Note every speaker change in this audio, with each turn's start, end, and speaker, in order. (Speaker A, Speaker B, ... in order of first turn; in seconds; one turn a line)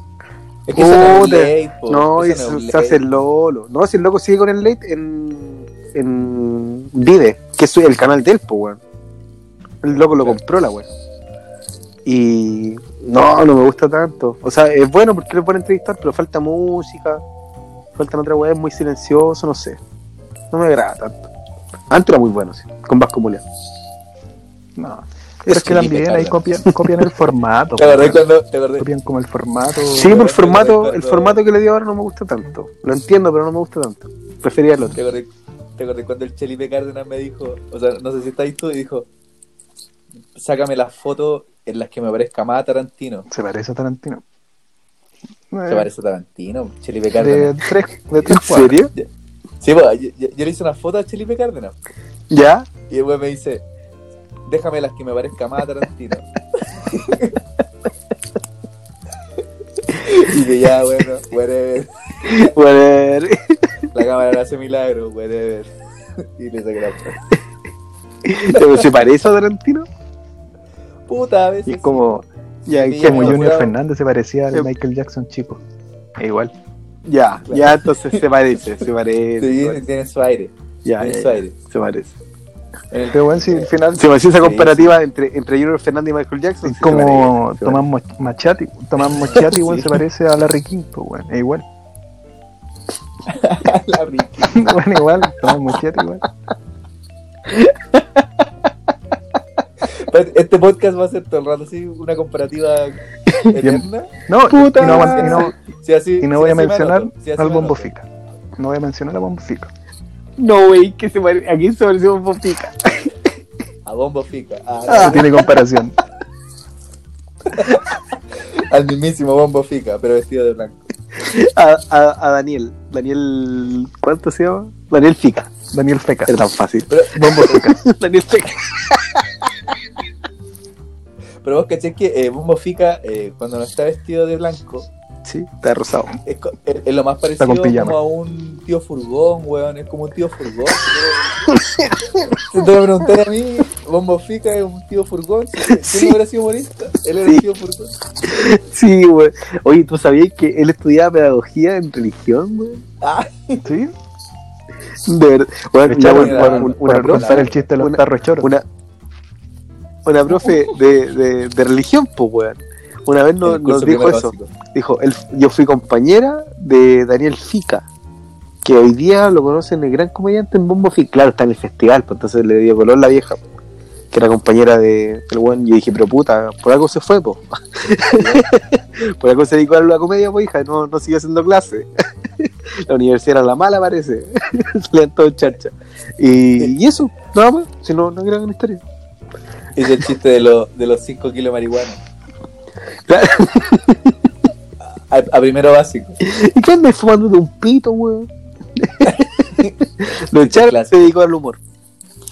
Speaker A: 0.7-3.0
Speaker B: 0.7-8.8
Speaker B: 9.8-10.9
Speaker B: 12.1-17.2
Speaker B: 17.9-19.8
Speaker B: 20.5-21.3
Speaker B: 21.9-23.4
Speaker C: 24.8-28.3
Speaker B: 25.5-26.1
Speaker A: 25.8-26.4
Speaker A: 27.8-28.9
Speaker C: 28.8-30.2
Speaker B: 29.9-35.0
Speaker A: 30.0-31.4
Speaker A: 34.9-39.1
Speaker A: 40.4-43.3
Speaker C: 43.3-44.2
Speaker C: 45.5-45.9
Speaker A: 45.7-47.5
Speaker C: 47.2-48.8
Speaker B: 48.2-48.9
Speaker A: 49.6-51.8
Speaker B: 52.3-52.7
Speaker A: 52.9-53.6
Speaker A: 54.5-57.4
Speaker A: 59.9-62.4
Speaker B: 62.2-63.6
Speaker A: 63.9-65.7
Speaker A: 66.4-67.2
Speaker B: 68.3-69.9
Speaker A: 68.5-68.9
Speaker A: 71.1-73.7
Speaker C: 71.7-72.2
Speaker B: 72.7-73.6
Speaker C: 73.0-75.6
Speaker C: 76.2-76.5
Speaker B: 77.0-79.8
Speaker A: 77.5-78.2
Speaker A: 79.4-81.6
Speaker B: 80.8-82.2
Speaker A: 82.9-83.7
Speaker C: 83.1-84.1
Speaker B: 84.0-87.8
Speaker A: 84.3-85.0
Speaker C: 86.6-91.7
Speaker A: 89.3-90.0
Speaker A: 93.3-94.7
Speaker C: 94.5-96.2
Speaker B: 97.5-98.0
Speaker A: 100.0-103.0
Speaker B: 103.3-103.6
Speaker A: 103.5-104.1
Speaker C: 103.6-105.5
Speaker B: 104.5-105.5
Speaker A: 104.8-107.9
Speaker C: 106.2-109.7
Speaker B: 110.4-113.1
Speaker A: 113.8-115.3
Speaker B: 114.9-115.5
Speaker C: 115.0-116.0
Speaker A: 117.5-117.8
Speaker A: 118.6-120.8
Speaker B: 121.2-125.5
Speaker C: 125.7-126.5
Speaker B: 126.3-126.9
Speaker A: 126.9-127.4
Speaker C: 127.1-127.8
Speaker B: 127.4-129.2
Speaker A: 131.4-134.9
Speaker B: 135.2-136.2
Speaker A: 136.2-141.3
Speaker C: 137.4-138.0
Speaker B: 141.6-142.0
Speaker A: 142.5-147.9
Speaker B: 145.7-146.2
Speaker B: 148.3-152.8
Speaker A: 153.0-153.6
Speaker C: 153.6-153.9
Speaker B: 155.1-158.7
Speaker C: 155.8-158.5
Speaker A: 156.0-157.7
Speaker B: 160.1-167.8
Speaker A: 160.4-160.6
Speaker A: 163.4-164.5
Speaker B: 168.6-173.4
Speaker B: 174.1-188.8
Speaker A: 178.2-178.4
Speaker A: 189.8-192.0
Speaker B: 193.1-194.1
Speaker A: 195.1-196.2
Speaker B: 196.2-201.6
Speaker A: 199.1-199.8
Speaker A: 200.3-201.2